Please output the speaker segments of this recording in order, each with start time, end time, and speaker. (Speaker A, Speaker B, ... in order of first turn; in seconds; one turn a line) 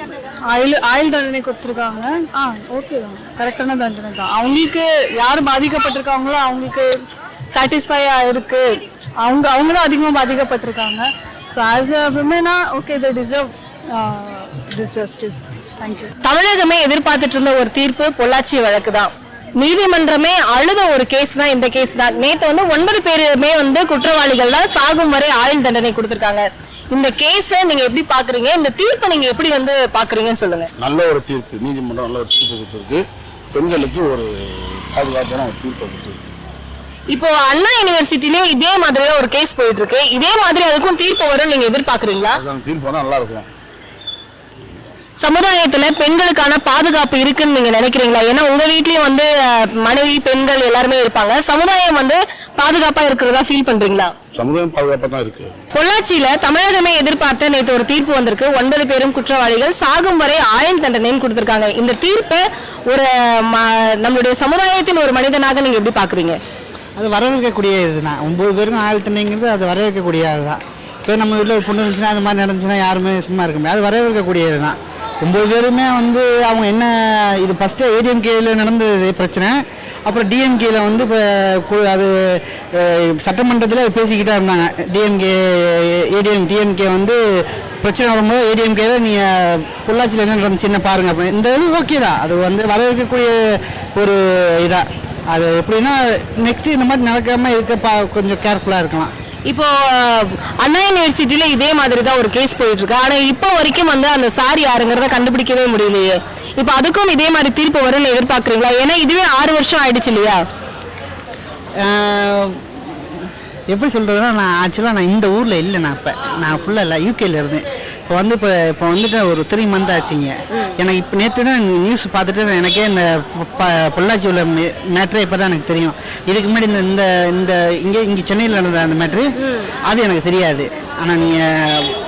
Speaker A: 0.5-6.9
Speaker A: 7.5-8.6
Speaker A: 9.2-13.4
Speaker A: 14.0-16.1
Speaker B: 16.2-30.7
Speaker C: 30.8-33.0
Speaker C: 33.5-34.3
Speaker C: 35.0-36.1
Speaker B: 37.1-42.4
Speaker C: 42.6-43.4
Speaker B: 45.2-54.1
Speaker C: 54.4-55.5
Speaker B: 55.7-66.4
Speaker D: 67.0-87.2
Speaker D: 87.8-99.1
Speaker B: 99.5-110.4
Speaker D: 111.9-131.9